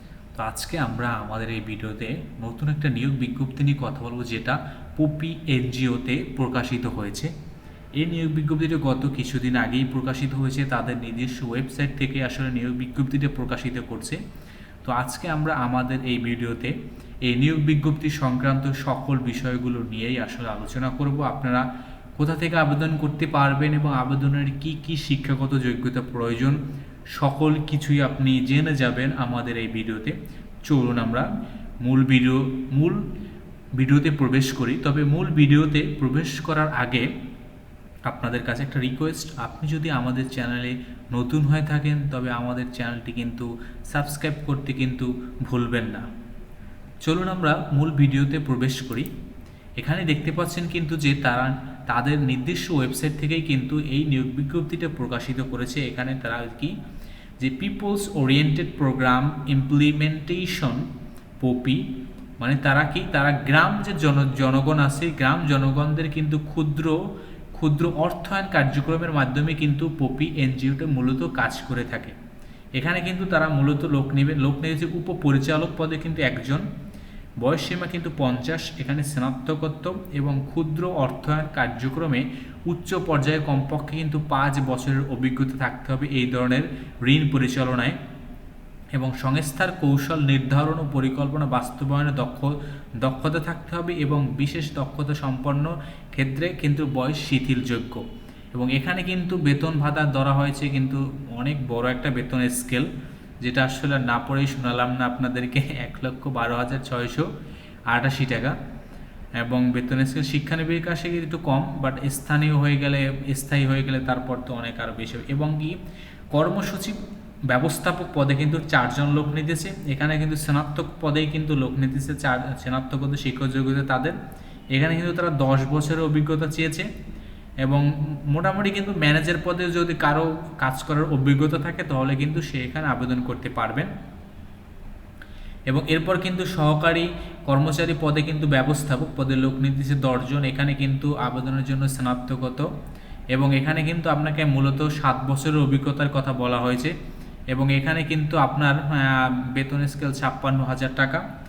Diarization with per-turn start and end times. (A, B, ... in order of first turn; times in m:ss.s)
0:00.4-0:07.3 A
0:08.0-0:14.2 A
0:14.8-0:21.6 A
0:22.2-0:26.6 A
0:27.2-0:31.3 A
0:31.8-0:33.0 A
0:33.8-0:37.1 A
0:38.1-0:46.0 A
0:47.0-0:49.1 A
0:49.8-0:56.8 A
0:57.4-1:00.9 A
1:01.4-1:01.8 A
1:02.4-1:07.0 A
1:07.5-1:12.2 A
1:12.8-1:16.7 A
1:17.4-1:28.0 A
1:28.9-1:42.9 A
1:43.4-1:47.3 A
1:47.9-1:48.6 A
1:49.4-1:55.8 A
1:56.3-1:57.0 A
1:57.5-2:04.2 A
2:04.7-2:06.9 A
2:07.6-2:13.9 A
2:15.7-2:22.7 A
2:23.3-2:26.9 A
2:27.5-2:31.2 A